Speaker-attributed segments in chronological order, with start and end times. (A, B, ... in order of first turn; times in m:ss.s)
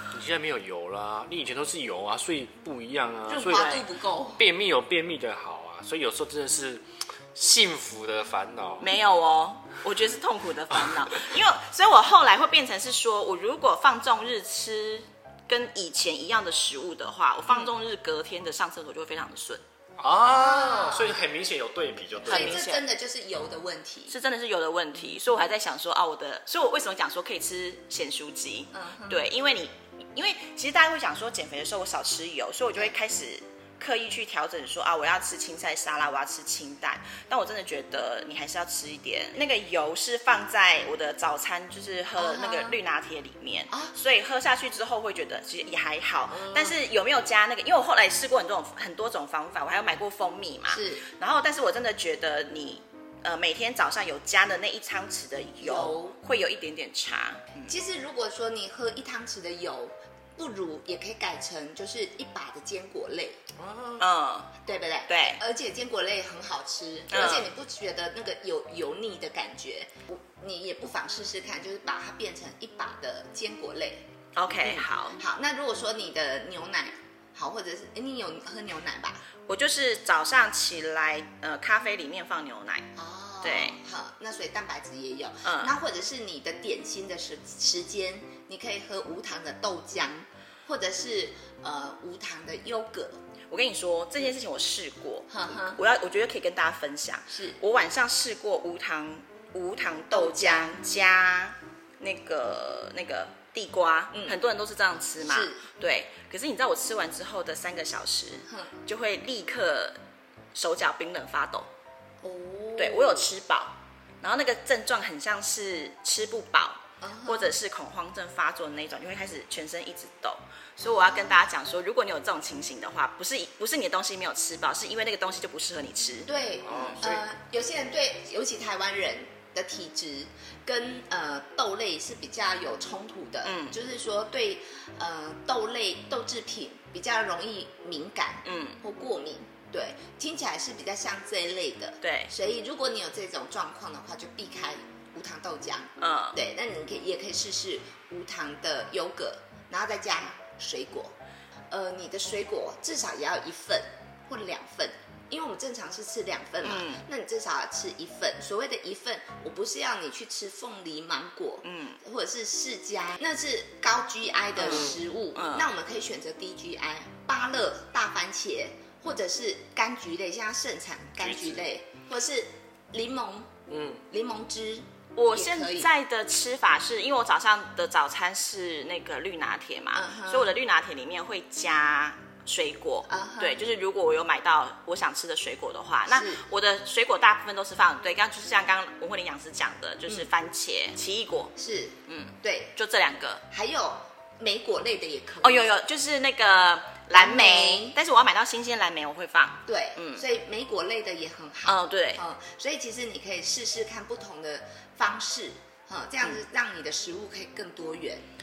0:00.1-0:03.8 A
0:03.3-0:04.4 B
0:03.5-0:03.8 C
0:04.4-0:08.9 A
0:08.8-0:19.6 C
0:20.0-0:22.6 A
0:20.3-0:21.2 B
0:22.2-0:24.1 B
0:22.3-0:22.9 C
0:24.1-0:57.8 C
0:28.7-0:29.2 B
0:42.2-0:42.8 B
0:46.3-0:46.8 B
0:50.7-0:51.0 B
0:55.6-0:56.2 B
0:57.7-1:03.4 B
1:03.6-1:04.0 A
1:04.0-1:04.5 C
1:04.6-1:19.2 B
1:05.1-1:05.4 C
1:07.1-1:07.5 C
1:14.4-1:15.2 C
1:19.5-1:22.9 C
1:23.0-1:33.2 B
1:23.4-1:23.8 C
1:25.4-1:25.7 C
1:33.5-1:50.0 C
1:35.3-1:35.8 B
1:37.3-1:37.6 B
1:40.1-1:40.9 B
1:44.1-1:44.4 B
1:45.2-1:45.6 B
1:48.5-1:48.7 B
1:50.5-1:51.7 C
1:52.2-1:53.3 B
1:52.8-2:06.9 C
1:57.0-1:57.6 B
2:00.8-2:01.4 B
2:06.3-2:31.2 B
2:06.6-2:07.2 A
2:13.4-2:13.8 C
2:18.4-2:18.8 C
2:22.0-2:22.3 C
2:26.0-2:26.4 C
2:31.7-2:53.6 B
2:36.6-2:37.0 C
2:41.6-2:42.0 C
2:44.6-2:45.7 C
2:44.7-2:44.9 A
2:51.2-2:51.6 A
2:53.7-2:54.0 A
2:54.1-2:55.9 B
2:55.2-3:11.6 C
2:59.9-3:00.6 B
3:03.1-3:03.7 B
3:06.1-3:06.4 B
3:11.6-3:12.7 B
3:12.1-3:13.4 C
3:13.5-3:15.7 B
3:15.4-3:20.3 C
3:17.1-3:18.0 B
3:19.6-3:28.2 B
3:21.7-3:22.2 C